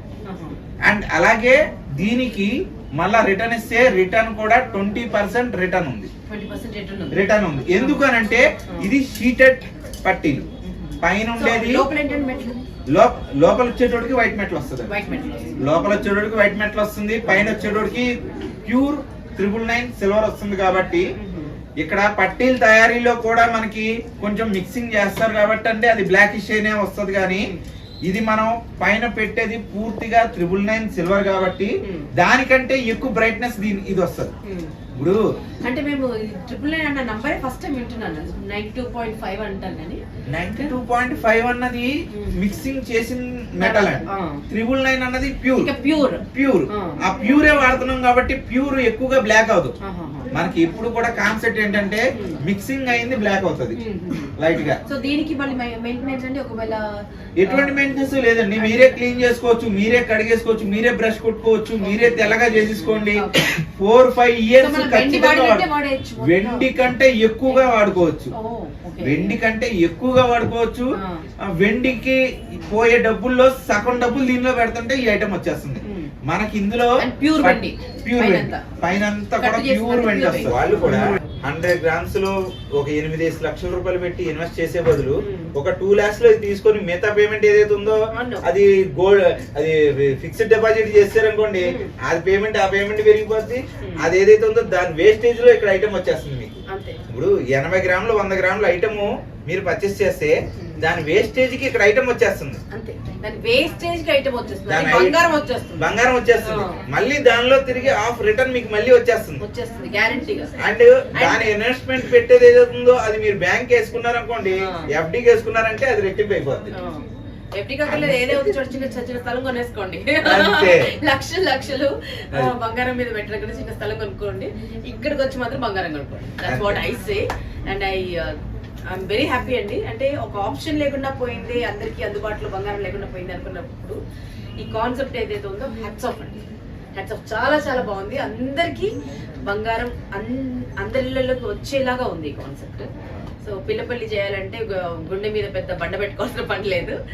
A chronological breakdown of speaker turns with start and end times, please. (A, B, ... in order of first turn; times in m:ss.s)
0:00.2-0:00.6 A
0:00.8-0:06.1 B
0:06.3-0:08.0 A
0:07.1-0:10.4 B
0:10.6-0:12.6 A
0:11.0-0:11.8 B
0:12.9-0:14.9 B
0:14.9-0:15.6 A
0:15.6-0:18.1 B
0:18.6-0:21.0 B
0:21.2-0:21.5 A
0:21.8-0:27.5 B
0:28.0-0:34.3 B
0:34.5-0:34.7 A
0:35.0-0:35.2 B
0:35.6-0:40.0 A
0:40.3-0:45.7 B
0:43.6-0:44.4 A
0:45.6-0:47.0 A
0:46.3-0:49.7 B
0:49.8-0:50.3 A
0:50.3-0:53.8 B
0:53.8-0:54.3 A
0:54.4-0:54.8 B
0:54.9-0:57.8 A
0:57.4-1:05.7 B
0:58.6-0:59.0 A
1:01.8-1:03.5 A
1:04.6-1:06.7 A
1:06.2-1:08.3 B
1:08.3-1:09.4 A
1:09.0-1:10.9 B
1:11.0-1:11.2 A
1:11.5-1:42.6 B
1:15.9-1:16.1 A
1:17.0-1:18.6 A
1:19.4-1:21.2 A
1:25.2-1:25.5 A
1:28.1-1:28.4 A
1:31.6-1:31.9 A
1:33.8-1:34.1 A
1:36.7-1:37.0 A
1:40.6-1:40.9 A
1:42.7-1:46.8 A
1:44.7-1:45.2 B
1:45.8-1:49.4 B
1:49.4-1:50.5 A
1:50.6-1:56.7 B
1:51.1-1:51.5 A
1:56.8-1:57.0 A
1:57.6-2:08.4 A
1:57.8-1:58.5 B
2:00.2-2:00.9 B
2:06.4-2:06.8 B
2:08.9-2:14.0 A
2:14.6-2:16.4 A
2:16.9-2:18.9 A
2:19.4-2:22.9 A
2:23.4-2:27.0 A